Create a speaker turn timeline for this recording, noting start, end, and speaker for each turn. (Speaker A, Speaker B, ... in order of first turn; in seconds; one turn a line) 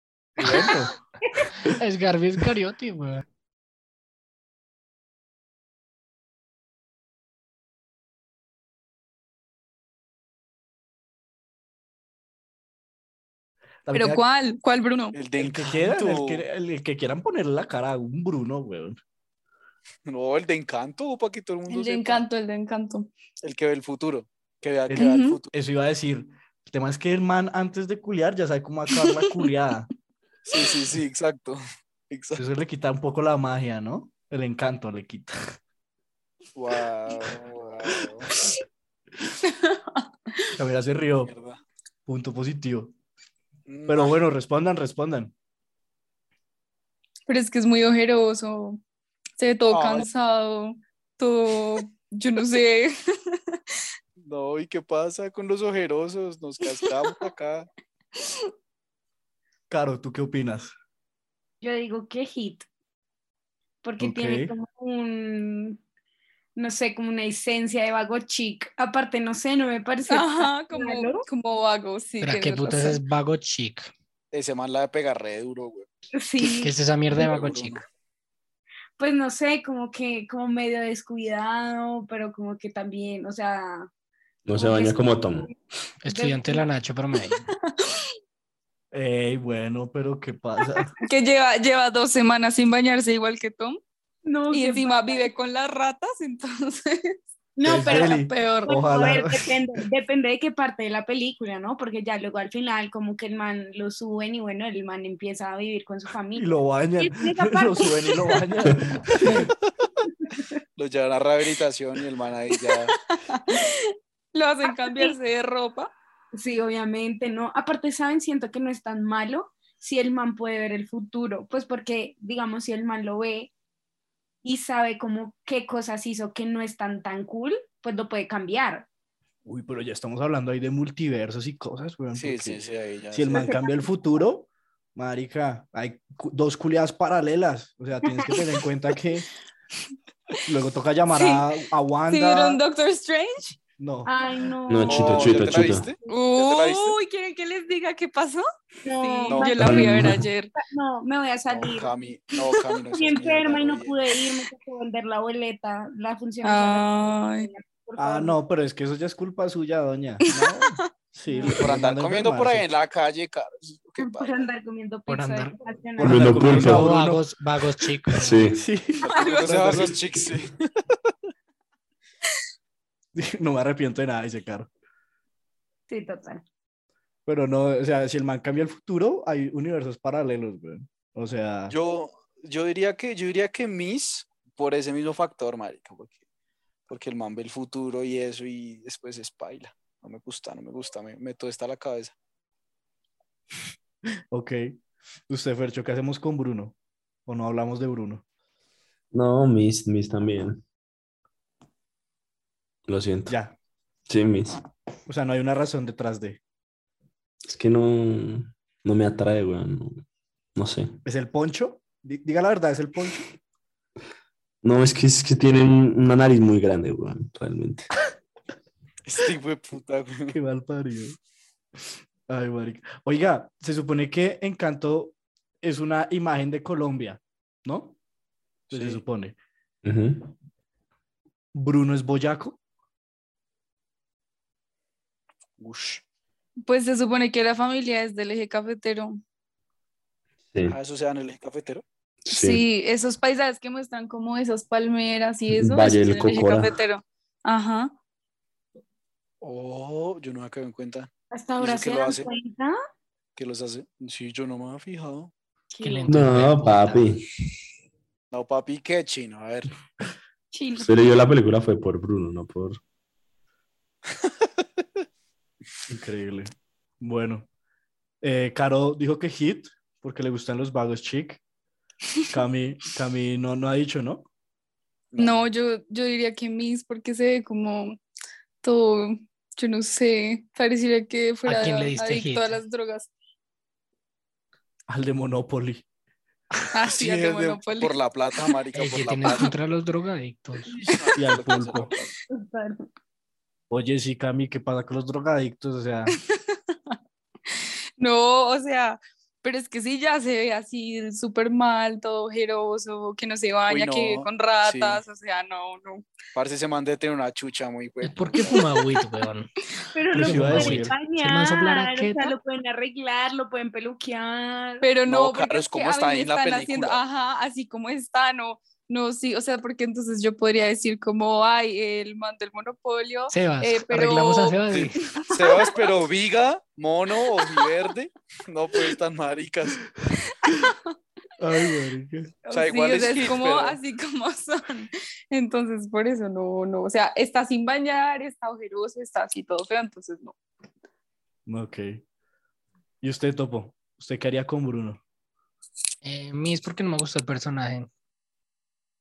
Speaker A: 0.4-0.9
Speaker B: 0.4-1.5
Speaker C: 1.6-3.2
Speaker A: 13.8-14.2
Speaker D: 13.9-15.2
Speaker E: 15.1-16.5
Speaker A: 15.3-19.0
Speaker E: 20.1-22.3
Speaker D: 21.7-23.1
Speaker E: 23.4-25.5
Speaker A: 24.9-29.9
Speaker D: 25.0-25.4
Speaker E: 30.5-32.4
Speaker A: 32.4-35.4
Speaker E: 36.6-38.3
Speaker A: 38.2-38.5
Speaker D: 39.5-40.6
Speaker A: 40.6-41.3
Speaker E: 41.3-41.6
Speaker A: 42.1-42.9
Speaker E: 43.7-44.2
Speaker A: 43.9-45.3
Speaker D: 47.3-48.8
Speaker D: 49.4-53.6
Speaker E: 49.7-50.1
Speaker E: 54.2-57.7
Speaker D: 58.2-58.5
Speaker A: 59.7-60.7
Speaker B: 61.6-62.7
Speaker B: 63.8-65.8
Speaker A: 64.0-64.5
Speaker B: 66.6-71.3
Speaker D: 70.1-73.0
Speaker C: 72.2-73.9
Speaker E: 74.3-75.9
Speaker B: 76.1-76.8
Speaker C: 76.4-77.8
Speaker E: 77.2-77.8
Speaker B: 79.0-83.9
Speaker F: 84.5-85.5
Speaker B: 84.5-85.5
Speaker C: 86.0-87.4
Speaker B: 86.1-86.6
Speaker A: 88.9-90.9
Speaker D: 91.0-93.8
Speaker B: 94.2-95.3
Speaker D: 94.5-97.2
Speaker B: 97.6-108.4
Speaker A: 97.7-99.6
Speaker D: 97.8-98.8
Speaker A: 106.3-109.5
Speaker B: 110.0-110.6
Speaker E: 110.8-113.0
Speaker D: 112.9-115.9
Speaker B: 114.7-115.2
Speaker B: 116.3-123.5
Speaker B: 124.4-128.9
Speaker A: 129.4-139.3
Speaker E: 132.2-133.5
Speaker B: 133.3-133.9
Speaker D: 138.1-138.6
Speaker A: 140.5-142.6
Speaker D: 141.2-141.5
Speaker D: 142.1-143.6
Speaker A: 143.8-144.1
Speaker B: 144.1-145.7
Speaker F: 144.7-145.9
Speaker E: 144.8-147.0
Speaker D: 146.1-148.4
Speaker B: 148.8-151.9
Speaker D: 149.0-150.5
Speaker E: 149.3-149.6
Speaker F: 149.6-150.3
Speaker E: 151.5-154.0
Speaker B: 152.9-158.4
Speaker D: 156.4-157.5
Speaker A: 158.0-162.7
Speaker D: 160.3-160.9
Speaker B: 161.3-161.6
Speaker E: 161.6-164.5
Speaker B: 164.0-166.6
Speaker C: 165.1-165.6
Speaker F: 166.0-166.9
Speaker A: 166.0-167.3
Speaker C: 166.4-168.5
Speaker F: 168.2-168.6
Speaker A: 168.5-170.0
Speaker E: 169.0-170.7
Speaker D: 169.0-169.5
Speaker A: 173.2-174.7
Speaker B: 175.9-176.4
Speaker A: 177.3-181.8
Speaker E: 181.7-186.2
Speaker E: 186.9-192.1
Speaker A: 194.3-194.8
Speaker A: 195.3-196.8
Speaker A: 197.3-198.2
Speaker F: 199.1-200.6
Speaker F: 202.9-203.3
Speaker A: 203.3-203.5
Speaker F: 204.1-204.6
Speaker A: 205.1-206.4
Speaker F: 207.4-210.0
Speaker F: 210.6-211.0
Speaker A: 211.1-213.2
Speaker F: 214.6-217.9
Speaker E: 219.1-220.4
Speaker A: 220.3-221.2
Speaker A: 222.3-228.0
Speaker E: 228.7-229.0
Speaker A: 228.7-229.4
Speaker F: 229.8-230.3
Speaker A: 231.5-232.6
Speaker E: 235.6-236.0
Speaker D: 236.7-239.2
Speaker E: 240.7-241.8
Speaker F: 242.3-242.6
Speaker D: 242.3-247.9
Speaker F: 245.5-246.8
Speaker E: 249.4-252.3
Speaker B: 251.3-252.8
Speaker E: 253.4-255.3
Speaker B: 255.7-256.2
Speaker C: 255.8-257.1
Speaker F: 256.1-257.2
Speaker E: 258.3-259.7
Speaker B: 260.5-261.0
Speaker F: 260.8-262.8
Speaker A: 265.9-267.5
Speaker A: 268.2-271.4
Speaker A: 272.3-274.3
Speaker E: 275.1-275.5
Speaker D: 275.2-278.0
Speaker D: 278.6-283.1
Speaker C: 281.4-282.6
Speaker A: 284.9-285.9
Speaker D: 286.8-287.9
Speaker E: 286.9-289.5
Speaker C: 288.7-290.8
Speaker E: 290.7-292.1
Speaker A: 291.1-291.9
Speaker B: 292.3-292.9
Speaker A: 293.7-296.2
Speaker D: 296.2-297.0
Speaker D: 297.5-306.1
Speaker E: 303.7-305.0
Speaker E: 306.3-308.6
Speaker C: 308.0-309.5
Speaker D: 308.5-309.0
Speaker B: 309.9-314.9
Speaker A: 310.1-310.9
Speaker C: 310.2-312.4
Speaker D: 314.8-324.6
Speaker E: 315.1-317.0
Speaker C: 323.3-325.0
Speaker E: 324.7-329.8
Speaker D: 325.2-325.8
Speaker D: 327.3-327.7
Speaker D: 330.2-330.9
Speaker A: 331.4-332.4
Speaker D: 332.5-340.4
Speaker E: 332.5-333.8
Speaker A: 341.5-342.0
Speaker A: 343.0-345.0
Speaker C: 346.0-347.9